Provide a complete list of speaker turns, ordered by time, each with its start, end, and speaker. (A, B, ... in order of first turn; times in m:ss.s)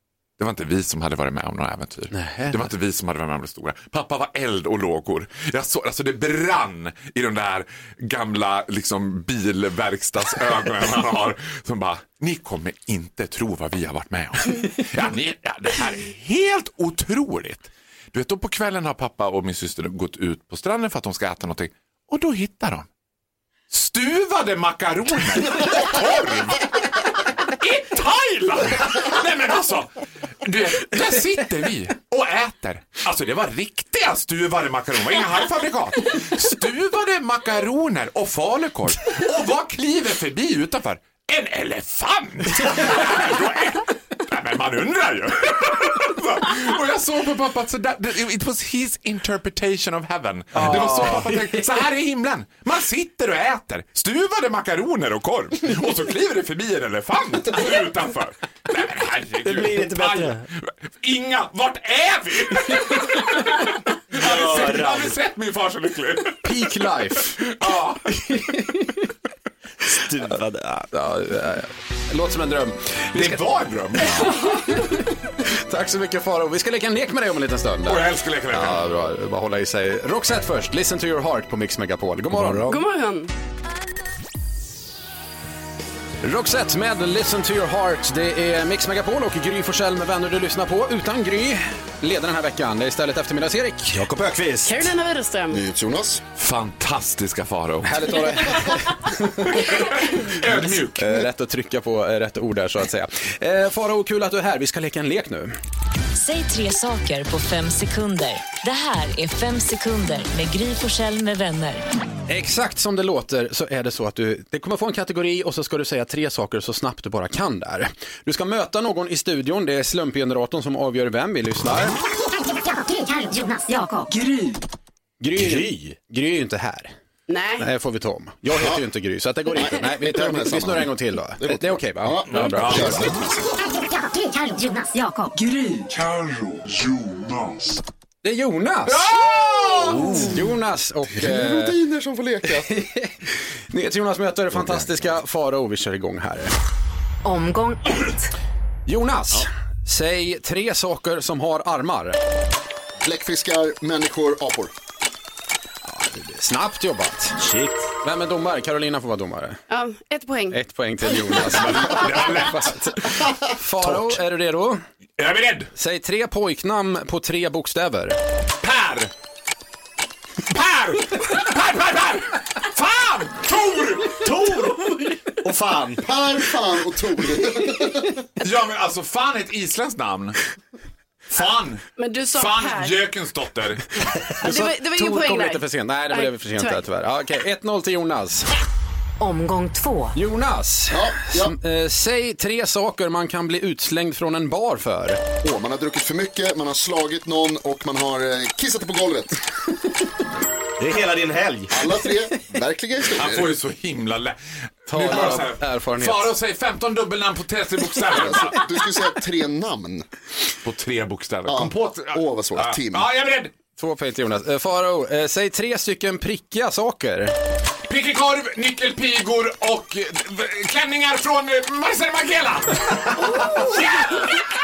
0:00.4-0:22.9 A
0:02.1-0:02.7 B
0:23.7-1:03.6 A
0:50.5-0:51.3 B
0:50.6-0:51.2 C
0:59.4-1:00.4 C
1:04.1-1:05.2 C
1:04.1-1:06.5 A
1:06.4-1:07.4 B
1:07.4-1:08.2 A
1:08.3-1:09.0 B
1:09.8-1:10.9 C
1:10.9-1:13.4 B
1:13.1-1:14.5 A
1:14.1-1:22.8 B
1:17.8-1:18.8 A
1:22.3-1:22.7 C
1:22.7-1:23.3 D
1:26.2-1:34.0 B
1:33.9-1:34.9 C
1:34.6-1:35.6 D
1:35.5-1:36.2 E
1:36.4-1:38.5 A
1:37.8-1:39.8 B
1:39.5-1:41.2 A
1:40.5-1:45.5 B
1:46.1-1:51.8 F
1:52.3-2:02.0 B
2:02.4-2:04.1 G
2:05.2-2:06.9 B
2:05.4-2:05.9 C
2:07.3-2:07.6 D
2:07.6-2:13.1 B
2:09.6-2:13.3 E
2:12.3-2:12.9 C
2:12.5-2:13.1 A
2:13.6-2:15.3 G
2:15.4-2:17.4 A
2:18.2-2:19.0 B
2:18.9-2:20.1 A
2:20.0-2:21.8 B
2:21.1-2:22.7 E
2:22.6-2:26.5 B
2:24.5-2:25.0 E
2:27.2-2:28.3 F
2:28.9-2:32.2 B
2:33.0-2:34.7 E
2:35.8-2:37.4 B
2:37.4-2:37.9 C
2:38.0-2:39.6 B
2:39.7-2:40.6 D
2:40.5-2:44.8 B
2:41.4-2:43.0 A
2:43.8-2:44.2 C
2:45.2-2:45.7 A
2:45.8-2:48.2 B
2:48.6-2:49.1 A
2:50.5-2:54.3 A
2:54.2-2:56.0 C
2:56.0-2:58.1 E
2:58.4-3:00.4 A
3:01.3-3:01.8 A
3:02.0-3:03.0 D
3:02.3-3:03.8 A
3:04.4-3:08.5 B
3:04.4-3:06.8 D
3:09.2-3:10.1 F
3:10.1-3:15.2 B
3:10.9-3:11.5 E
3:15.4-3:19.4 E
3:20.8-3:21.8 C
3:21.7-3:23.5 E
3:23.2-3:28.6 A
3:24.9-3:26.3 B
3:28.2-3:30.0 E
3:30.6-3:33.5 A
3:31.5-3:33.0 E
3:33.8-3:37.4 B
3:37.9-3:44.4 A
3:43.3-3:43.7 D